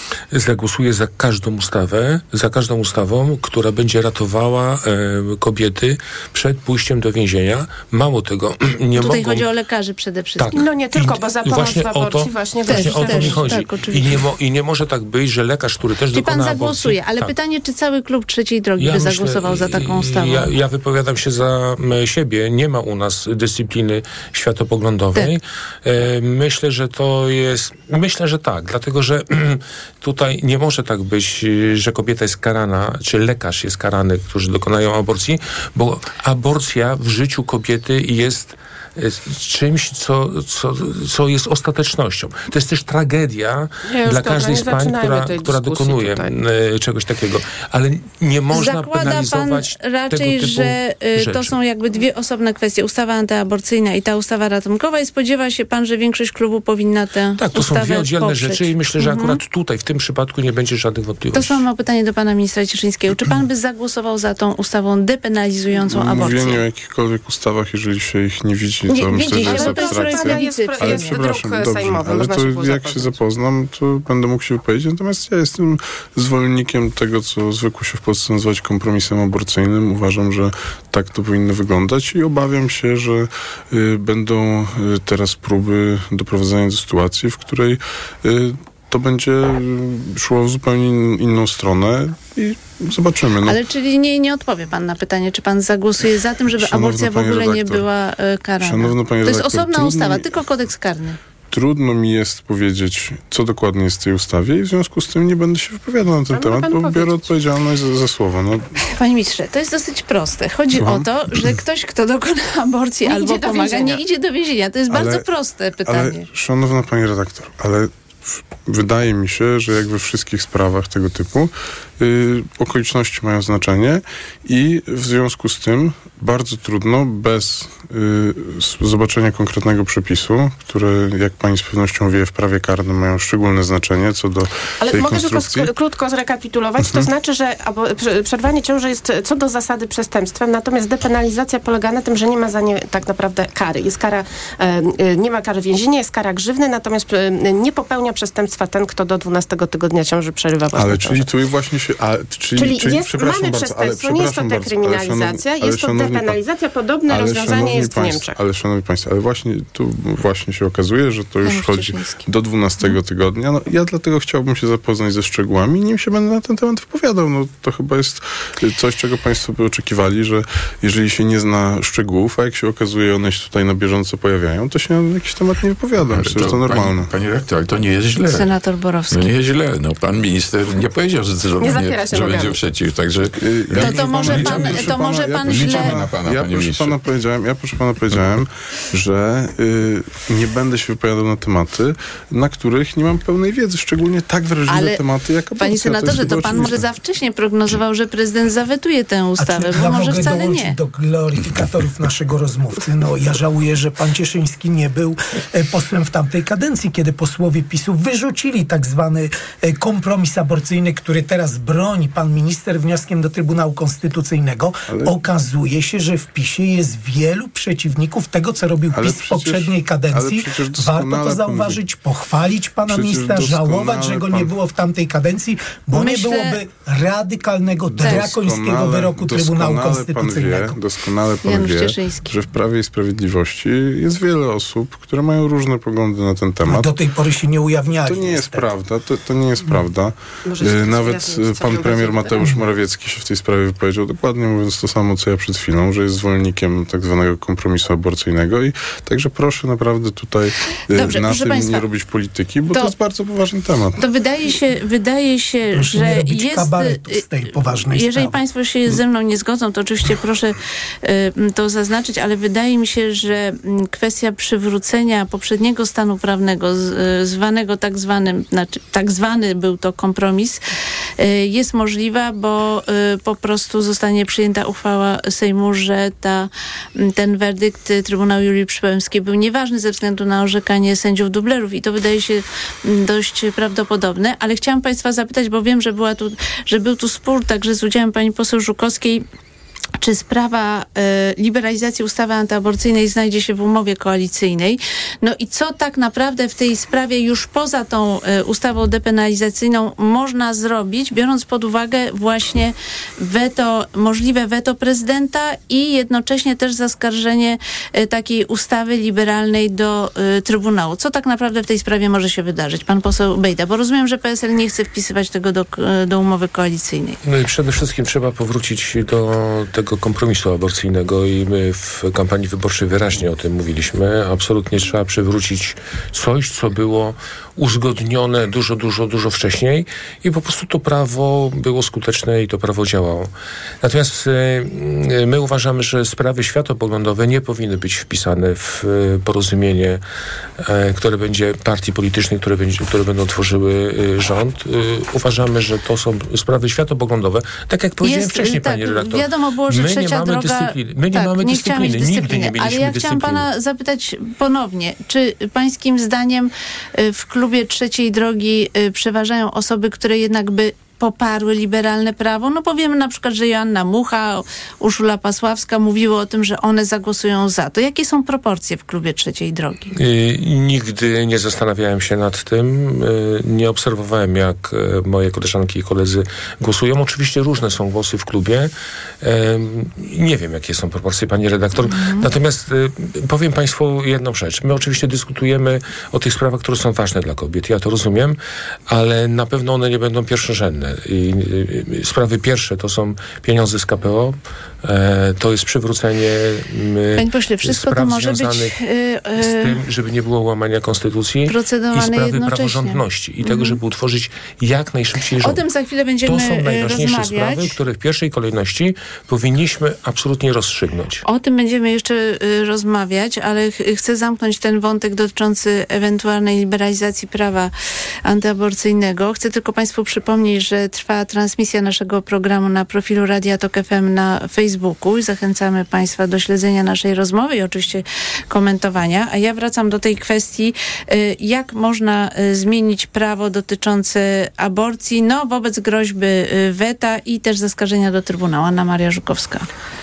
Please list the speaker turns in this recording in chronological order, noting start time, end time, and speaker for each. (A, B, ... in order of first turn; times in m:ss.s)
0:00.3-0:09.5 A
0:08.9-0:10.6 B
0:10.4-0:17.3 A
0:10.5-0:13.6 C
0:12.7-0:14.2 B
0:16.1-0:20.5 B
0:18.8-0:51.6 A
0:43.9-0:46.3 C
0:48.5-0:59.4 B
0:57.4-1:01.6 A
1:01.3-1:06.6 B
1:05.9-1:33.6 D
1:08.9-1:11.2 B
1:09.3-1:13.1 C
1:33.4-1:41.2 B
1:36.6-1:37.8 D
1:38.6-1:40.3 D
1:41.5-1:48.7 D
1:46.3-1:47.2 C
1:48.9-1:56.2 B
1:50.8-1:51.5 D
1:53.0-1:54.0 C
1:54.9-1:55.2 D
1:55.8-2:15.7 D
2:14.8-2:31.3 C
2:16.8-2:17.1 D
2:30.8-2:36.4 D
2:32.6-2:38.4 C
2:37.1-2:57.1 D
2:41.4-2:42.3 B
2:56.0-2:58.5 E
2:58.3-2:59.2 B
2:59.1-3:07.0 E
3:01.6-3:02.6 C
3:03.4-3:16.8 D
3:03.8-3:05.9 B
3:14.7-3:15.0 B
3:15.6-3:20.7 B
3:19.4-3:50.8 F
3:38.9-3:41.8 D
3:42.9-3:44.5 D
3:45.9-3:46.6 B
3:47.9-3:56.9 D
3:51.4-3:52.3 B
3:56.6-3:58.7 F
3:58.0-4:14.0 D
4:00.4-4:02.5 C
4:10.9-4:11.8 B
4:14.0-4:30.6 B
4:15.7-4:18.4 F
4:31.2-4:49.2 B
4:50.0-5:17.2 B
5:17.2-5:33.3 A
5:33.8-5:40.0 A
5:40.6-5:53.4 A
5:48.0-6:09.9 B
6:10.0-6:38.8 A
6:21.9-6:22.3 B
6:37.2-6:39.7 B
6:39.4-6:45.6 A
6:41.5-6:43.8 B
6:45.4-6:47.7 B
6:46.2-6:51.2 A
6:51.2-6:57.7 B
6:58.2-7:19.7 B